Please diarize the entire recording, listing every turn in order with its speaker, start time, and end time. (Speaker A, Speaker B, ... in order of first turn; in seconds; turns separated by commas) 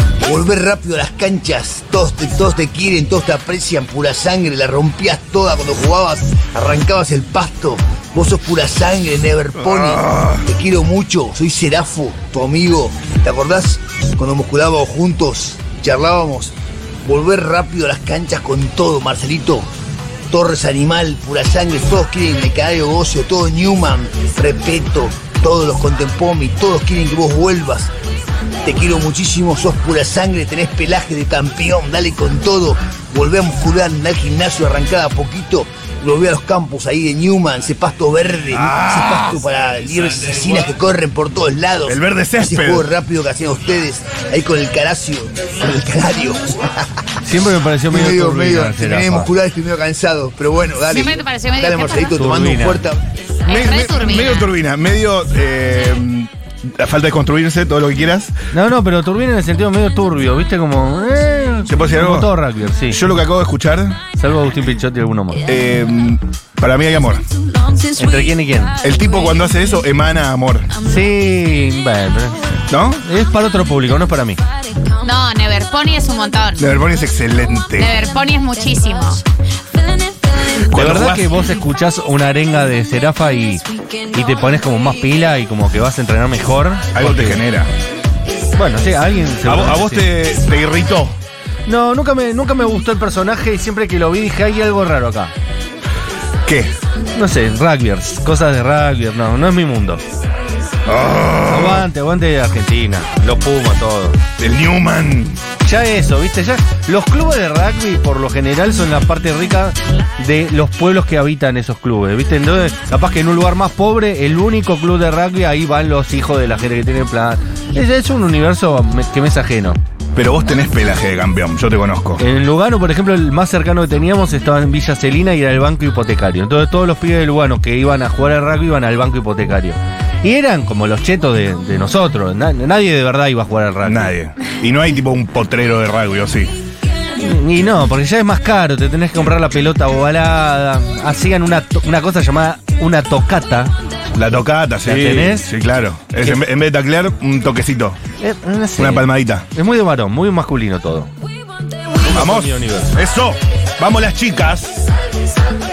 Speaker A: 0.2-16.5, Speaker B: 9.6-10.4, Speaker A: 17.0-19.7, Speaker A: 20.3-27.9, Speaker A: 28.6-46.7, Speaker B: 38.5-39.5, Speaker B: 40.1-40.4, Speaker B: 41.9-42.9, Speaker C: 47.2-49.3, Speaker A: 47.9-53.0, Speaker D: 50.9-52.1, Speaker C: 52.2-52.8, Speaker D: 53.5-54.5, Speaker B: 53.5-58.4, Speaker C: 58.5-63.1, Speaker B: 61.7-64.0, Speaker C: 64.2-65.4, Speaker B: 65.5-67.2, Speaker E: 67.3-69.8, Speaker C: 68.0-68.7, Speaker B: 68.8-70.7, Speaker E: 70.7-71.1, Speaker C: 70.8-74.4, Speaker B: 72.7-73.0, Speaker E: 74.4-75.1, Speaker D: 75.0-76.7, Speaker B: 76.6-77.9, Speaker D: 77.8-79.2, Speaker E: 78.0-80.7, Speaker B: 80.7-81.3, Speaker C: 80.7-83.6, Speaker E: 83.5-85.3, Speaker C: 84.1-87.4, Speaker B: 86.9-87.7, Speaker C: 88.5-90.1, Speaker B: 89.5-91.2, Speaker C: 91.7-95.3, Speaker B: 96.5-96.7, Speaker C: 97.2-100.0, Speaker B: 100.9-101.9, Speaker C: 101.5-104.2, Speaker B: 104.4-105.4, Speaker C: 105.6-119.8, Speaker B: 120.2-122.2, Speaker C: 122.2-134.1, Speaker B: 133.8-136.5, Speaker C: 137.2-143.8, Speaker B: 144.2-148.0, Speaker C: 144.8-145.5, Speaker C: 148.2-151.1, Speaker B: 148.8-149.5, Speaker C: 152.0-153.0, Speaker B: 152.1-154.9